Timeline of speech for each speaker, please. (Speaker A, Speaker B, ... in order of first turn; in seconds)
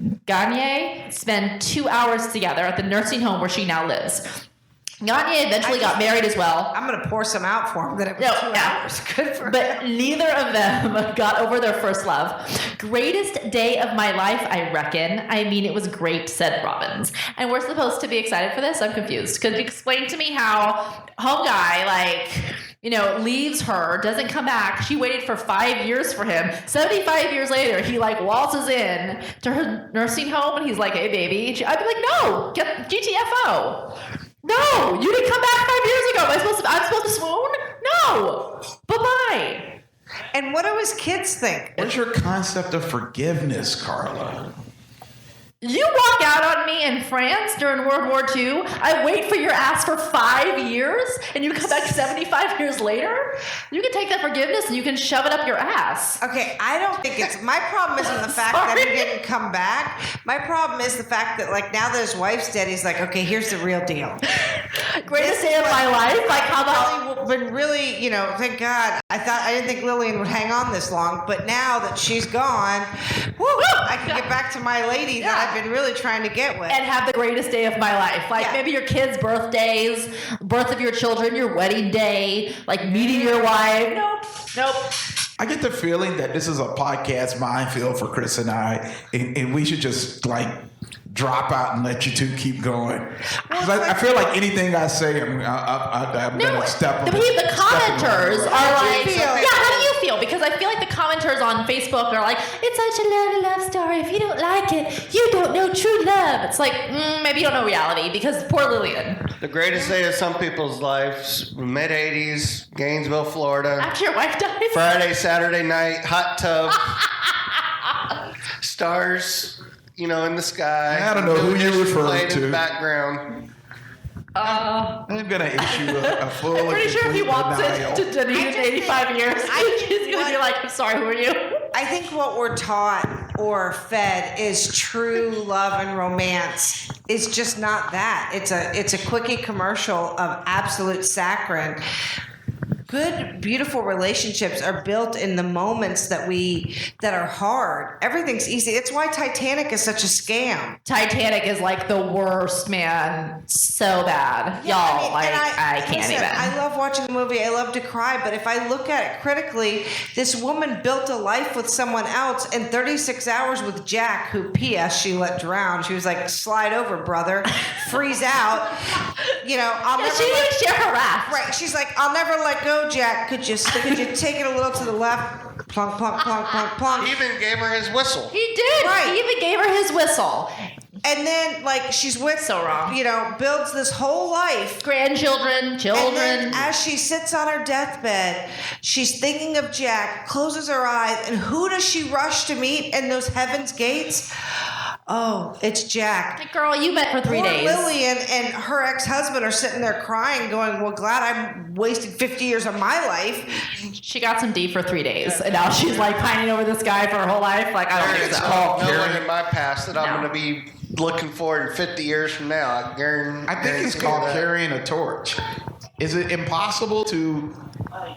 Speaker A: 0.2-4.2, 5.0-6.7, 8.2-8.8, 9.4-33.9, 34.4-39.8, 45.6-56.2, 58.0-59.1, 64.3-66.9, 73.6-74.2, 75.2-75.6, 76.7-84.8, 96.3-109.3, 113.8-114.9, 124.3-125.1, 125.6-131.6, 150.8-156.5, 170.0-171.4, 178.3-180.5, 182.4-183.0, 184.8-186.6, 196.4-197.9, 203.9-209.0, 209.9-210.3
Speaker B: 5.6-9.8, 40.3-41.9, 56.2-64.2, 65.1-76.8, 78.3-78.6, 93.5-94.0, 98.5-99.9, 128.3-130.4, 131.7-141.8, 142.9-150.8, 154.6-168.8, 169.4-170.6, 171.3-177.2, 178.8-179.2, 181.0-184.8, 185.9-194.3, 195.1-196.4, 197.2-203.5
Speaker C: 41.8-44.5, 85.4-99.1, 120.9-122.6, 124.4-128.1, 208.2-209.2, 213.4-215.4, 216.0-217.5
Speaker D: 99.4-99.8, 109.4-113.9, 114.7-116.8, 118.6-123.2, 176.9-178.3, 205.2-206.2, 207.9-214.5